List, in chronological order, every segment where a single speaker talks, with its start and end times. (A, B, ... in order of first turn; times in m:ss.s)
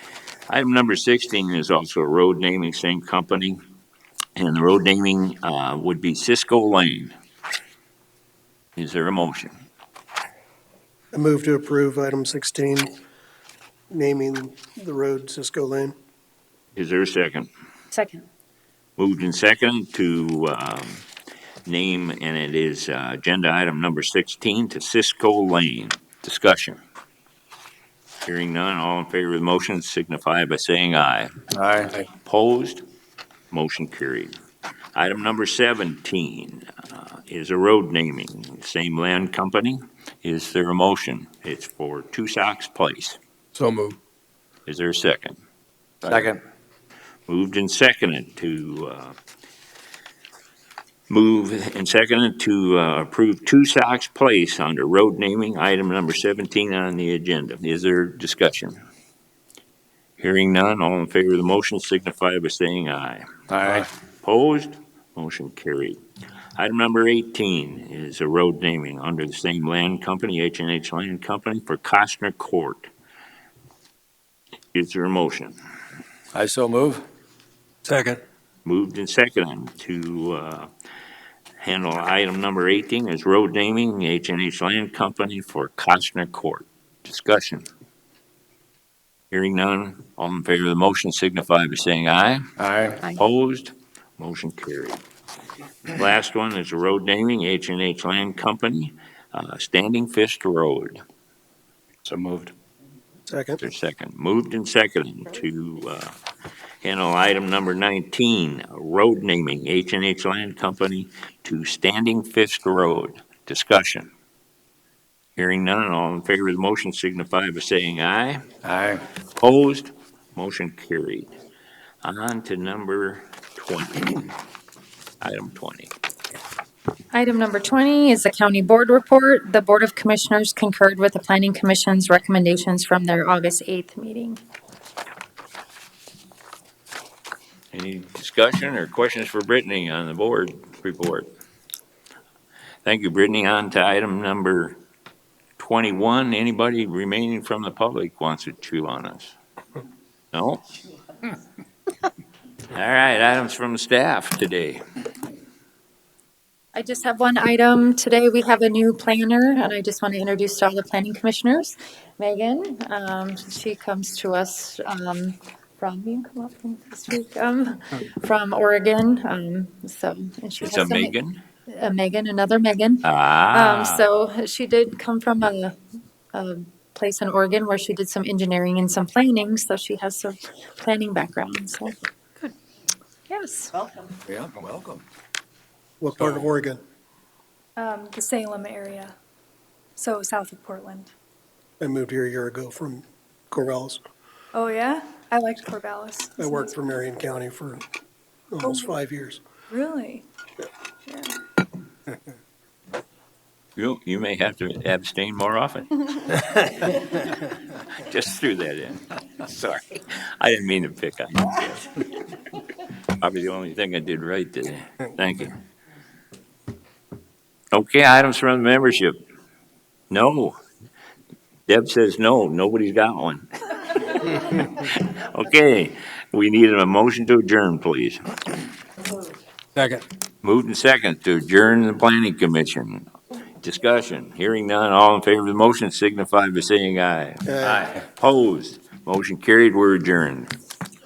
0:00.5-0:03.6 A
0:04.4-0:07.1 A
0:08.8-0:09.5 A
0:11.1-0:12.9 B
0:13.9-0:16.0 B
0:16.8-0:17.5 A
0:17.9-0:18.2 C
0:19.0-0:21.0 A
0:21.7-0:26.8 A
0:28.2-0:31.3 A
0:31.5-0:32.0 D
0:32.1-0:32.8 A
0:33.5-0:34.3 A
0:35.0-0:43.2 A
0:43.5-0:44.0 D
0:44.7-0:45.4 A
0:46.0-0:46.3 A
0:46.1-0:46.3 D
0:47.3-0:49.2 A
0:51.1-0:58.8 A
1:00.2-1:06.0 A
1:03.5-1:03.9 D
1:06.6-1:12.9 A
1:14.7-1:15.6 A
1:16.3-1:17.0 D
1:17.8-1:18.2 D
1:18.6-1:20.7 A
1:21.6-1:27.7 A
1:29.3-1:32.4 A
1:32.6-1:33.0 D
1:33.0-1:35.0 A
1:35.9-1:41.0 A
1:42.1-1:42.5 A
1:43.3-1:43.6 B
1:43.6-1:46.2 A
1:46.8-1:54.1 A
1:55.4-1:58.4 A
1:58.6-1:59.0 D
1:59.4-2:01.3 A
2:02.0-2:04.3 A
2:05.2-2:05.9 A
2:07.1-2:14.4 C
2:17.7-2:21.3 A
2:22.8-2:24.8 A
2:25.6-2:29.3 A
2:30.3-2:30.6 A
2:32.7-2:34.8 A
2:36.8-2:51.1 C
2:50.6-2:51.4 A
2:51.7-2:55.8 C
2:53.0-2:54.1 A
2:56.3-3:02.0 C
3:03.3-3:03.7 C
3:04.3-3:05.0 D
3:06.0-3:06.8 B
3:07.8-3:09.2 E
3:10.0-3:11.1 E
3:11.8-3:14.0 B
3:14.6-3:16.8 E
3:16.4-3:17.8 B
3:18.5-3:19.4 B
3:18.6-3:18.9 E
3:19.7-3:20.2 E
3:21.1-3:21.3 E
3:23.8-3:26.9 A
3:27.8-3:32.1 A
3:33.1-3:35.6 A
3:37.7-3:39.2 A
3:40.1-3:40.6 A
3:41.7-3:48.2 A
3:49.8-3:50.0 D
3:50.4-3:53.1 A
3:53.6-4:00.5 A
3:57.5-3:57.9 B